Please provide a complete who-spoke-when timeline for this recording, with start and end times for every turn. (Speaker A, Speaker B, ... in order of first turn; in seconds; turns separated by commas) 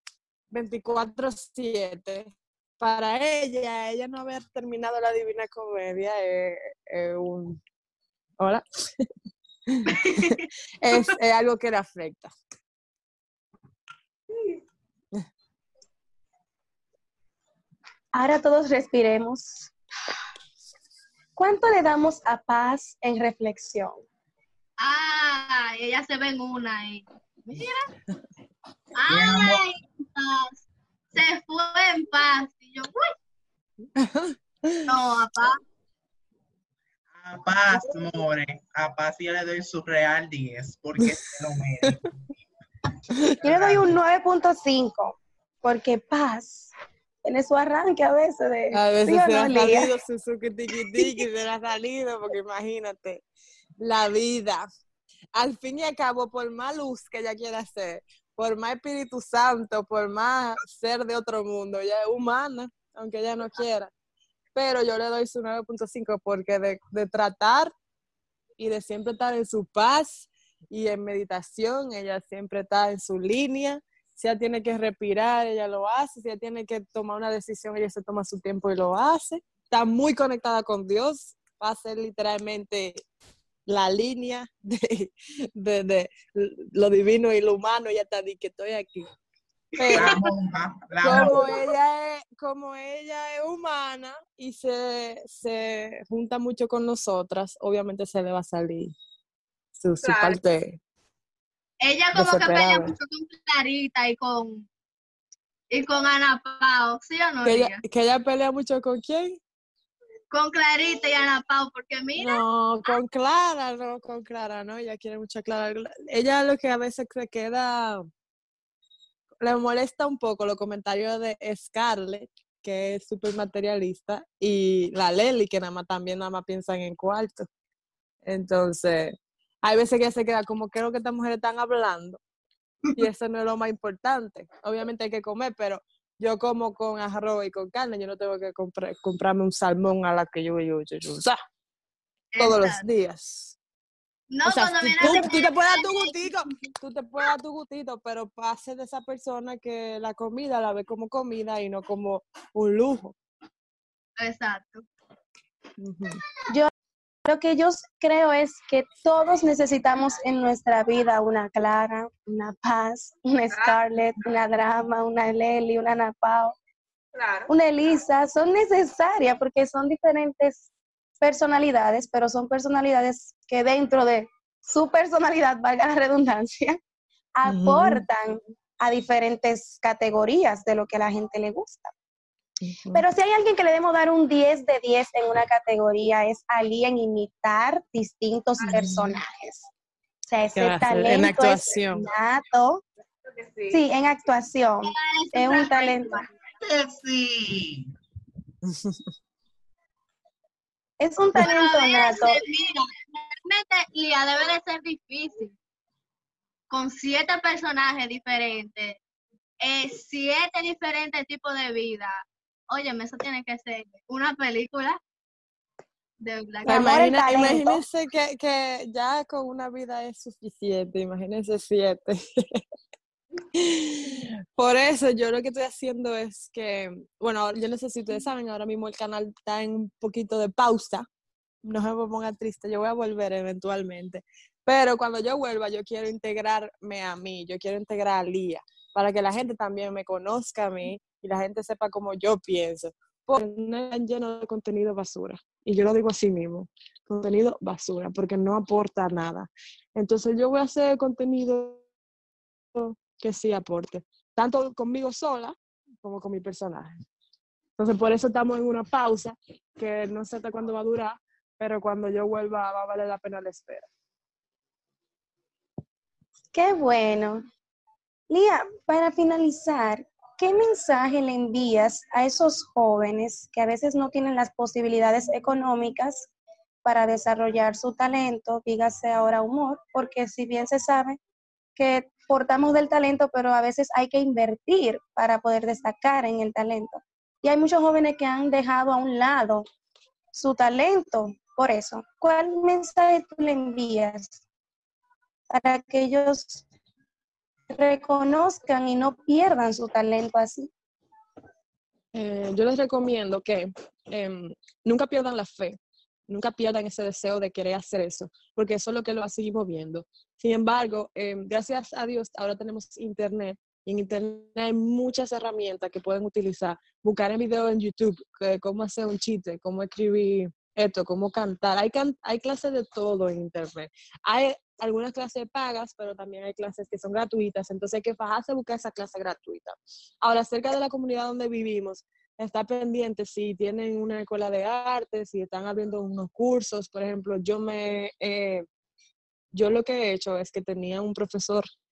Speaker A: 0.5-7.6, Speaker A: 8.4-9.1, Speaker A: 9.7-12.3, Speaker B: 14.3-14.6, Speaker C: 18.1-19.7, Speaker C: 21.4-24.0, Speaker D: 24.8-27.9, Speaker D: 28.9-33.1, Speaker E: 29.1-29.6, Speaker A: 34.0-34.9, Speaker D: 34.9-35.6, Speaker E: 37.1-42.1, Speaker C: 43.4-46.7, Speaker E: 43.4-44.0, Speaker C: 47.2-49.9, Speaker A: 48.7-53.2, Speaker A: 53.8-54.7, Speaker A: 55.3-63.9, Speaker A: 64.5-67.7, Speaker A: 68.6-83.0, Speaker A: 83.7-89.1, Speaker A: 89.8-90.2, Speaker E: 89.8-91.5, Speaker B: 89.8-90.2, Speaker A: 91.0-98.9, Speaker B: 91.0-91.6, Speaker A: 99.8-100.8, Speaker B: 100.0-100.4, Speaker D: 101.8-104.7, Speaker A: 102.1-102.9, Speaker D: 105.7-107.8, Speaker A: 107.4-109.4, Speaker D: 110.3-113.0, Speaker A: 112.2-118.1, Speaker A: 119.4-127.5, Speaker A: 128.2-132.2, Speaker A: 132.9-141.4, Speaker D: 142.3-142.8, Speaker A: 142.4-143.6, Speaker D: 144.3-146.7, Speaker A: 144.4-153.1, Speaker D: 154.2-154.8, Speaker A: 155.8-156.2, Speaker C: 157.2-166.6, Speaker B: 163.5-163.8, Speaker B: 167.1-167.5, Speaker C: 167.5-170.7, Speaker C: 171.2-176.8, Speaker C: 177.3-181.9, Speaker A: 177.4-178.0, Speaker A: 182.6-183.0, Speaker C: 182.9-189.7, Speaker B: 188.6-188.9, Speaker A: 188.7-189.0, Speaker C: 190.3-192.8, Speaker A: 190.5-192.1, Speaker B: 193.3-193.8, Speaker C: 193.7-196.3, Speaker D: 194.8-196.3, Speaker E: 196.6-197.9, Speaker A: 198.6-199.1, Speaker C: 201.0-202.4, Speaker D: 201.4-205.6, Speaker D: 206.7-209.0, Speaker D: 209.6-215.0, Speaker D: 216.2-216.8, Speaker A: 216.6-222.6, Speaker C: 216.7-217.8, Speaker A: 223.6-231.1, Speaker A: 231.6-251.8, Speaker A: 252.7-256.9, Speaker A: 257.8-263.9, Speaker C: 266.5-267.4, Speaker C: 268.3-276.3, Speaker C: 276.8-281.2, Speaker C: 281.8-289.6, Speaker C: 290.3-294.4, Speaker C: 295.5-296.6, Speaker C: 297.7-300.7, Speaker A: 302.1-338.6, Speaker A: 339.5-341.6